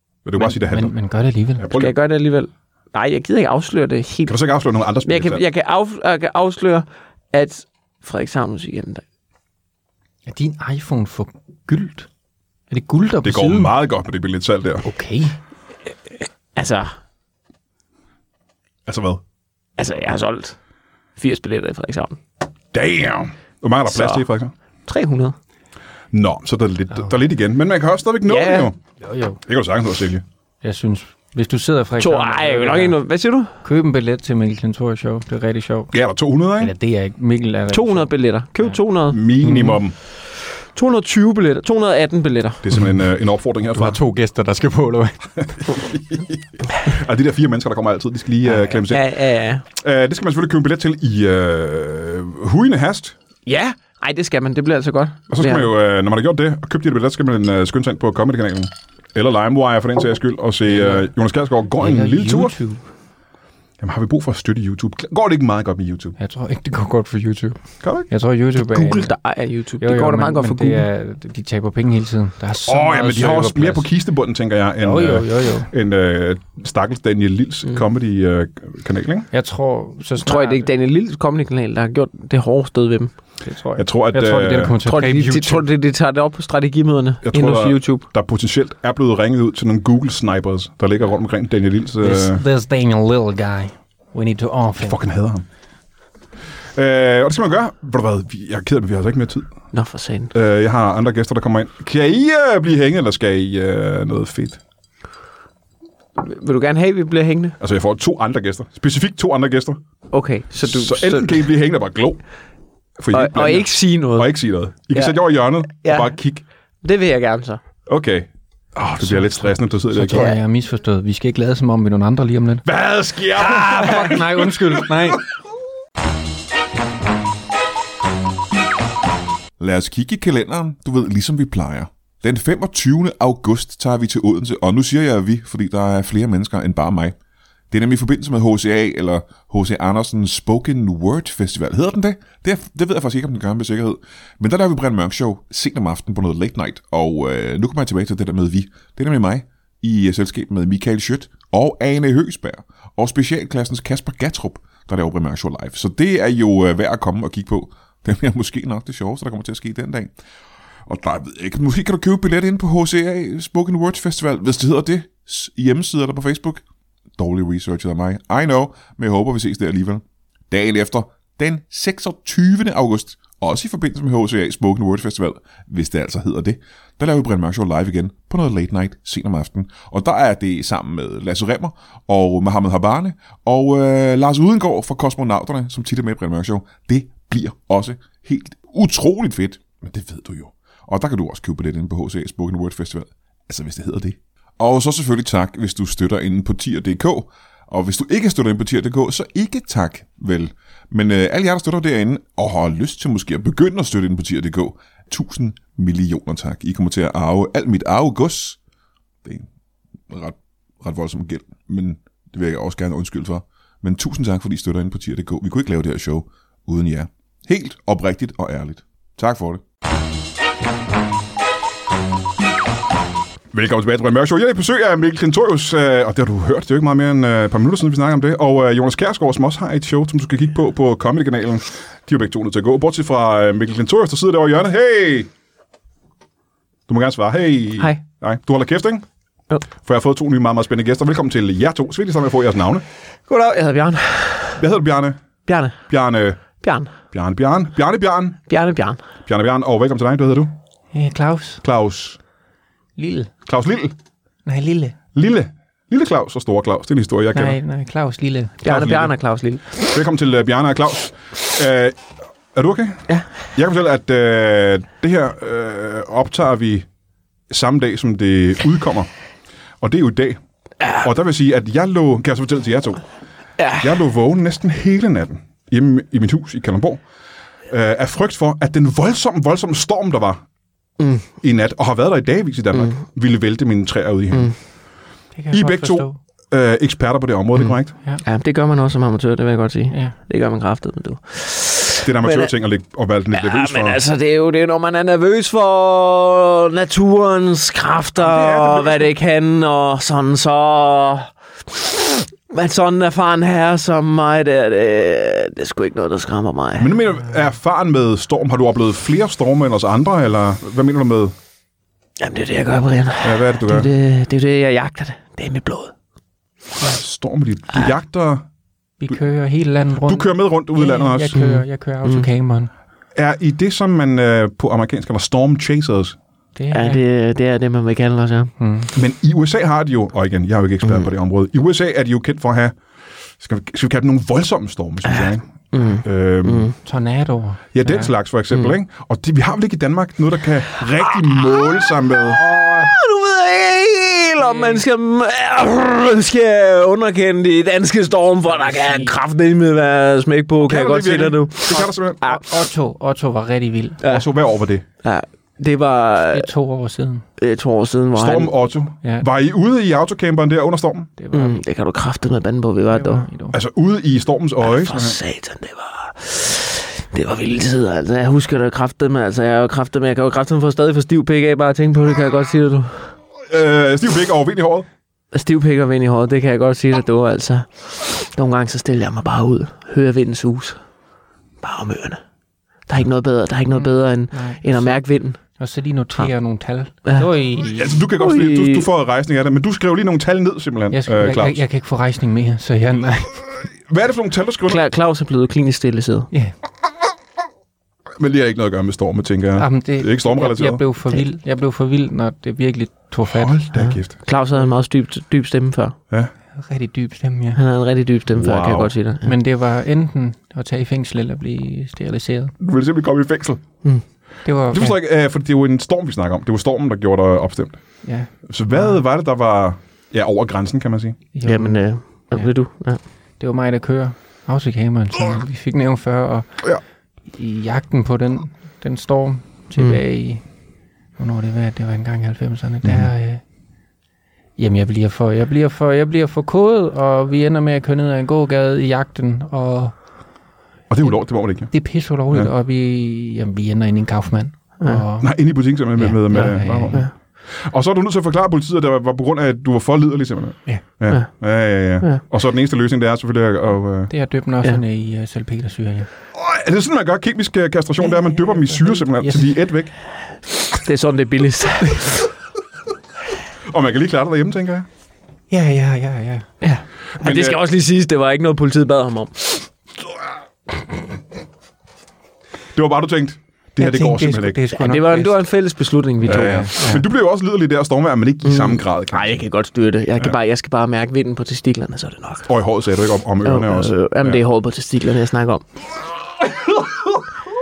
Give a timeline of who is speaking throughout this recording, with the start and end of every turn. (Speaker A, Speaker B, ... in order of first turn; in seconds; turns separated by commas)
Speaker A: 0.2-0.9, Speaker B: 0.4-1.7, Speaker A: 1.6-1.9, Speaker C: 1.7-4.4, Speaker A: 4.3-5.4, Speaker C: 5.0-9.0, Speaker B: 10.3-12.1, Speaker B: 12.7-13.7, Speaker A: 13.2-14.9, Speaker B: 14.8-15.4, Speaker C: 16.6-16.9, Speaker A: 18.9-19.2, Speaker C: 19.8-20.6, Speaker C: 21.2-22.2, Speaker A: 22.7-24.5, Speaker C: 23.9-24.2, Speaker C: 24.9-25.4, Speaker A: 26.1-28.8, Speaker C: 28.3-28.7, Speaker B: 29.0-29.4, Speaker A: 29.5-30.2, Speaker B: 30.6-33.0, Speaker C: 32.0-33.5, Speaker B: 33.6-35.9, Speaker A: 35.9-36.7, Speaker B: 36.6-38.8, Speaker C: 37.7-39.2, Speaker A: 39.1-39.9, Speaker B: 39.4-39.8, Speaker C: 40.8-42.6, Speaker A: 42.6-44.0, Speaker B: 43.7-45.3, Speaker A: 45.4-49.1, Speaker C: 48.6-49.6, Speaker A: 49.8-53.1, Speaker C: 53.5-55.7, Speaker A: 55.3-62.6, Speaker B: 60.7-61.1, Speaker B: 61.8-62.8, Speaker A: 63.8-66.2, Speaker B: 66.2-69.2, Speaker A: 67.8-68.1, Speaker C: 68.6-70.9, Speaker B: 69.8-73.9, Speaker A: 72.7-79.3, Speaker B: 74.8-75.7, Speaker B: 79.3-80.7, Speaker C: 80.2-83.1, Speaker B: 83.4-85.6, Speaker A: 83.8-84.8, Speaker C: 84.8-88.0, Speaker A: 87.2-92.4, Speaker B: 92.0-95.0, Speaker A: 94.8-95.5, Speaker A: 96.8-99.5, Speaker C: 99.7-100.3, Speaker A: 100.3-104.6, Speaker C: 106.2-107.6, Speaker A: 107.6-109.8, Speaker C: 110.1-111.5, Speaker A: 110.6-112.2, Speaker A: 113.0-116.4, Speaker C: 113.1-114.3, Speaker C: 114.9-115.2, Speaker C: 115.8-116.2, Speaker C: 116.8-117.6, Speaker A: 117.9-120.3, Speaker B: 119.0-122.7, Speaker C: 120.1-120.4, Speaker A: 122.7-125.2, Speaker B: 123.3-125.2, Speaker D: 129.6-137.1, Speaker A: 129.7-137.1, Speaker D: 137.7-160.1, Speaker A: 137.7-160.1, Speaker A: 160.9-166.6, Speaker D: 161.3-166.6, Speaker D: 167.2-170.0, Speaker A: 167.2-170.0, Speaker D: 170.5-189.8, Speaker A: 170.5-183.4, Speaker A: 184.2-194.2, Speaker D: 190.9-193.1, Speaker D: 194.1-208.6, Speaker A: 194.7-197.1, Speaker A: 197.8-200.4, Speaker A: 201.0-204.7, Speaker A: 205.3-208.5, Speaker A: 210.8-219.6, Speaker D: 210.9-219.6, Speaker A: 223.5-235.3, Speaker A: 236.9-239.1, Speaker A: 239.8-242.8, Speaker C: 243.3-244.6, Speaker A: 244.6-245.2, Speaker C: 245.5-245.8, Speaker A: 245.9-246.4, Speaker C: 246.6-246.9, Speaker A: 247.1-248.4, Speaker C: 248.5-249.0, Speaker A: 249.3-250.5, Speaker B: 250.9-251.6, Speaker A: 251.6-252.2, Speaker B: 253.0-253.3, Speaker A: 253.5-253.9, Speaker B: 254.4-255.0, Speaker A: 255.1-257.6, Speaker B: 257.3-258.6, Speaker C: 258.6-259.9, Speaker A: 258.6-259.1, Speaker A: 259.8-266.9, Speaker A: 267.5-269.1, Speaker A: 269.8-270.4, Speaker A: 271.0-273.0, Speaker C: 273.6-274.0, Speaker A: 273.8-277.0, Speaker A: 277.7-280.4, Speaker C: 281.0-281.3, Speaker A: 281.4-284.5, Speaker C: 282.7-283.0, Speaker B: 285.4-286.2, Speaker A: 285.5-287.9, Speaker C: 288.2-292.5, Speaker B: 289.9-290.1, Speaker A: 292.0-294.0, Speaker C: 293.3-307.0, Speaker A: 298.2-299.1, Speaker A: 306.8-311.3, Speaker C: 312.2-315.9, Speaker A: 313.2-313.9, Speaker A: 316.8-318.4, Speaker B: 319.0-322.7, Speaker A: 320.0-321.4, Speaker C: 321.4-322.3, Speaker A: 323.1-326.2, Speaker B: 326.6-327.0, Speaker C: 326.7-328.5, Speaker B: 328.6-328.9, Speaker A: 328.9-332.8, Speaker A: 333.4-335.5, Speaker C: 335.2-336.7, Speaker A: 336.0-336.7, Speaker B: 336.8-338.1, Speaker A: 337.7-342.4, Speaker C: 342.4-352.6, Speaker B: 342.6-342.9, Speaker B: 344.4-344.8, Speaker B: 348.4-349.1, Speaker A: 350.6-352.2, Speaker B: 352.2-354.0, Speaker A: 354.1-354.9, Speaker C: 355.0-356.5, Speaker B: 356.3-357.2, Speaker C: 357.4-358.5, Speaker A: 358.1-361.1, Speaker B: 361.2-361.6, Speaker C: 361.3-363.3, Speaker B: 362.9-363.6, Speaker A: 363.5-365.2, Speaker C: 364.6-373.1, Speaker A: 373.5-374.9, Speaker C: 375.3-380.8, Speaker C: 381.6-382.2, Speaker C: 382.9-385.4, Speaker B: 383.7-385.0, Speaker B: 385.6-388.0, Speaker A: 387.8-391.6, Speaker C: 388.1-388.9, Speaker B: 390.9-393.5, Speaker A: 393.9-394.8, Speaker C: 394.7-396.3, Speaker A: 398.2-400.8, Speaker B: 399.6-403.6, Speaker A: 403.3-404.1, Speaker C: 403.7-406.0, Speaker B: 406.6-407.6, Speaker C: 407.6-409.4, Speaker A: 408.4-408.9, Speaker B: 409.2-412.6, Speaker A: 412.6-413.6, Speaker B: 414.4-415.0, Speaker A: 414.7-417.8, Speaker B: 418.0-419.0, Speaker A: 418.5-421.2, Speaker B: 421.3-422.5, Speaker C: 421.4-423.0, Speaker B: 423.4-426.6, Speaker B: 427.3-430.4, Speaker C: 429.8-430.0, Speaker B: 431.2-433.4, Speaker B: 434.6-440.0, Speaker A: 440.9-441.7, Speaker B: 441.7-445.4, Speaker A: 445.2-454.1, Speaker B: 446.0-447.0, Speaker B: 454.1-456.1, Speaker A: 456.4-459.9, Speaker B: 458.0-459.5, Speaker C: 460.7-462.3, Speaker A: 463.7-464.9, Speaker B: 465.5-466.5, Speaker C: 466.6-469.7, Speaker A: 467.2-467.6, Speaker A: 472.8-474.6, Speaker B: 473.8-475.4, Speaker C: 474.8-476.7, Speaker B: 476.2-477.1, Speaker A: 476.2-479.4, Speaker C: 478.4-482.5, Speaker A: 482.5-484.4, Speaker C: 483.4-485.6